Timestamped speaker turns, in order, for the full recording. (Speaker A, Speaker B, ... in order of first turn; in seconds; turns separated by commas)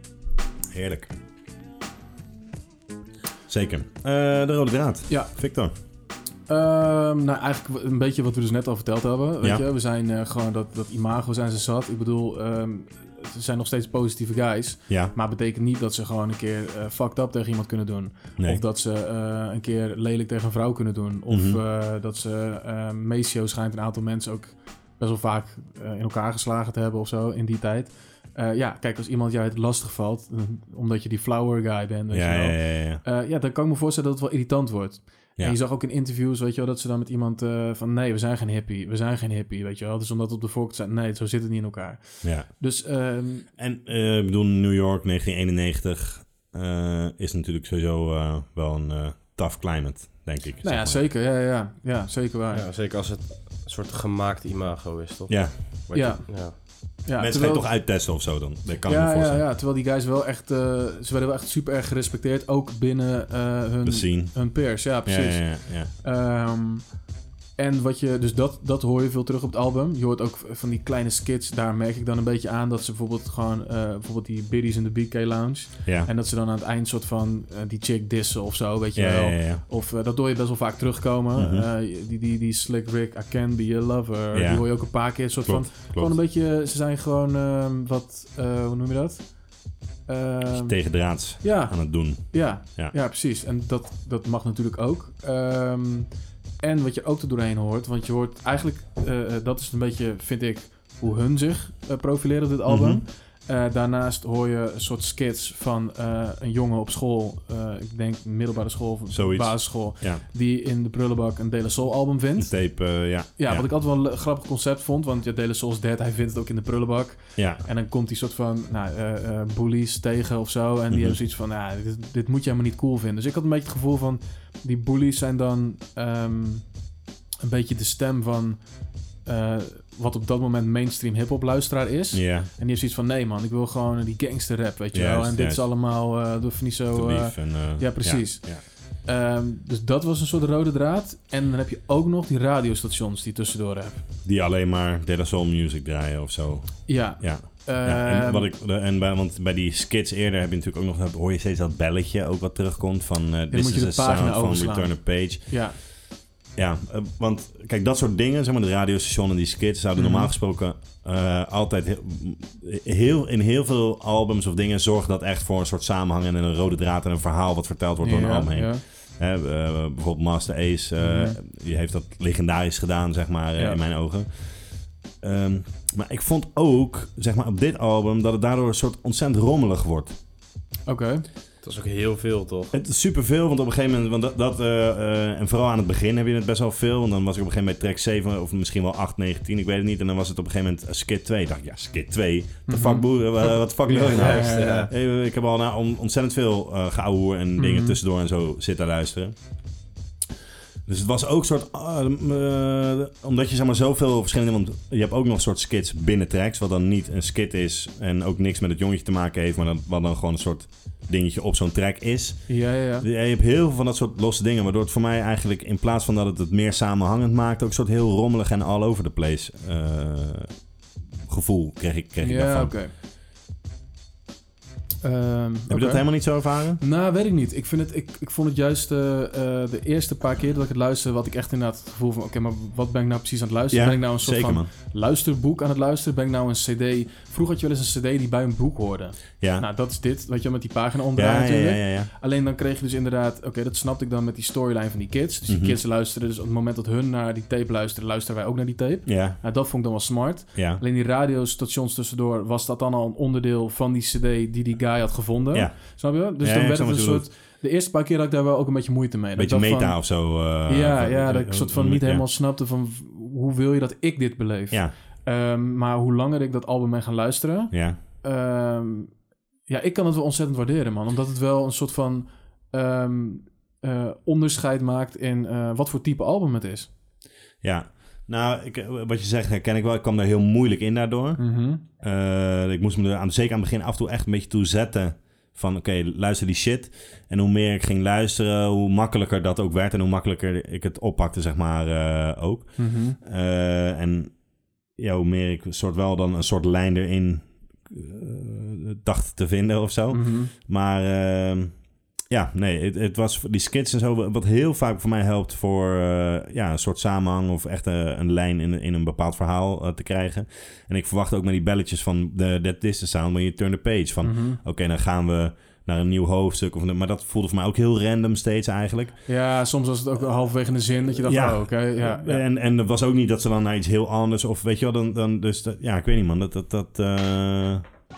Speaker A: 0.7-1.1, Speaker A: 3.5-5.7, Speaker B: 6.5-43.5, Speaker A: 18.4-18.6, Speaker A: 21.3-21.6, Speaker A: 32.1-33.0, Speaker A: 42.2-42.5, Speaker A: 43.6-51.1, Speaker B: 50.6-52.6, Speaker C: 52.5-56.6, Speaker A: 55.3-56.1, Speaker B: 55.9-57.8, Speaker A: 57.1-59.5, Speaker B: 58.9-66.9, Speaker A: 63.8-65.9, Speaker B: 67.6-126.8, Speaker A: 75.8-76.1, Speaker A: 78.9-79.6, Speaker A: 81.3-81.7, Speaker A: 84.3-86.2, Speaker A: 90.5-92.9, Speaker A: 102.7-103.0, Speaker A: 109.1-110.2, Speaker A: 112.4-113.7, Speaker A: 117.4-117.6, Speaker A: 120.9-121.2, Speaker B: 127.4-144.0, Speaker A: 132.1-132.5, Speaker A: 134.9-135.7, Speaker A: 136.9-138.6, Speaker A: 144.2-155.6, Speaker B: 146.9-148.5, Speaker B: 153.5-155.8, Speaker A: 156.6-180.2, Speaker B: 159.9-160.3, Speaker B: 168.0-168.8, Speaker B: 171.0-171.4, Speaker B: 180.9-181.3, Speaker C: 181.6-182.7, Speaker A: 182.7-199.4, Speaker B: 192.7-194.9, Speaker C: 193.9-194.9, Speaker B: 197.6-198.0, Speaker A: 200.9-220.6, Speaker B: 212.5-213.1, Speaker A: 221.3-222.8, Speaker B: 222.2-222.9, Speaker B: 225.0-269.1, Speaker A: 225.7-226.8, Speaker A: 233.7-234.7, Speaker A: 239.4-239.7, Speaker A: 241.1-242.1, Speaker A: 245.5-245.8, Speaker A: 249.1-249.4, Speaker A: 250.6-250.8, Speaker A: 255.5-257.3, Speaker A: 259.4-262.3, Speaker A: 267.7-268.0, Speaker B: 269.7-276.9, Speaker A: 277.6-319.2, Speaker B: 281.4-281.8, Speaker B: 292.8-293.2, Speaker B: 300.1-300.5, Speaker B: 314.2-314.6, Speaker B: 319.3-322.4, Speaker A: 321.2-327.9